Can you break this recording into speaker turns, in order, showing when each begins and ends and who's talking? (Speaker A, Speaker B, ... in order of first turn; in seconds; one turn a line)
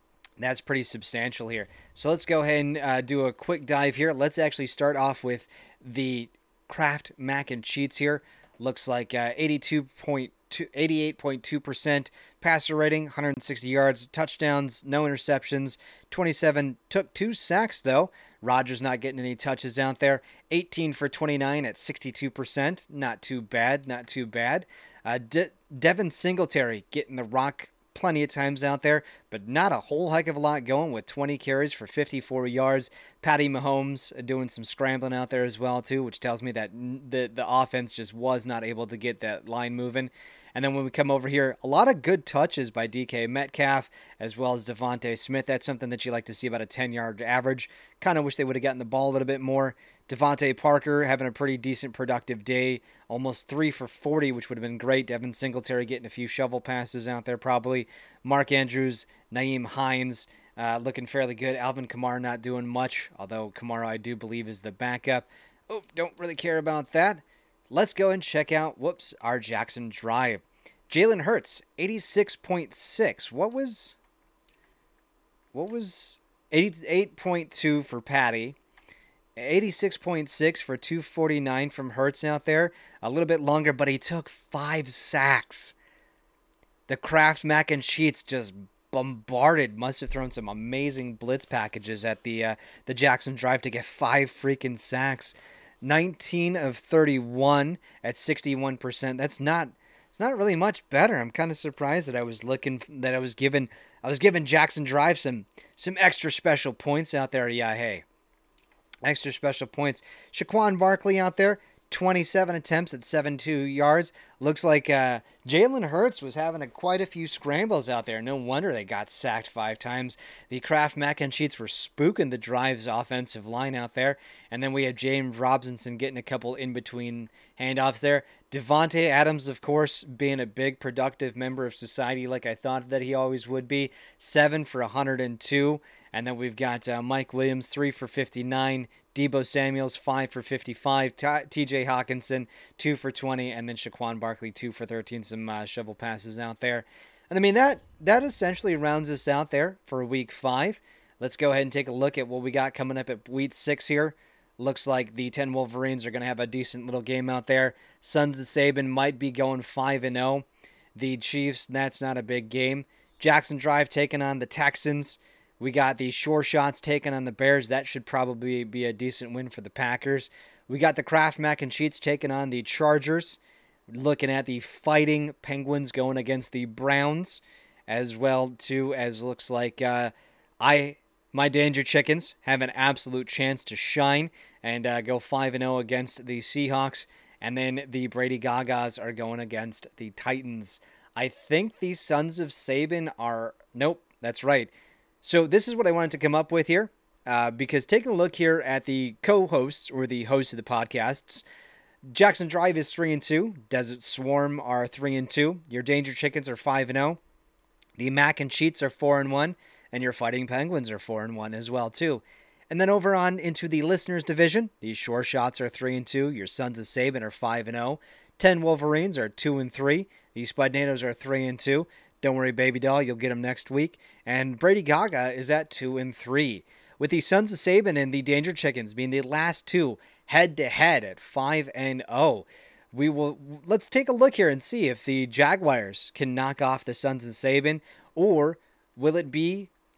Speaker A: 0.4-74.0
Speaker A: 75.5-78.6
Speaker A: 79.4-85.7
Speaker A: 86.9-108.0
Speaker A: 109.0-194.7
Speaker A: 195.2-201.4
Speaker A: 202.1-207.2
Speaker A: 208.0-239.7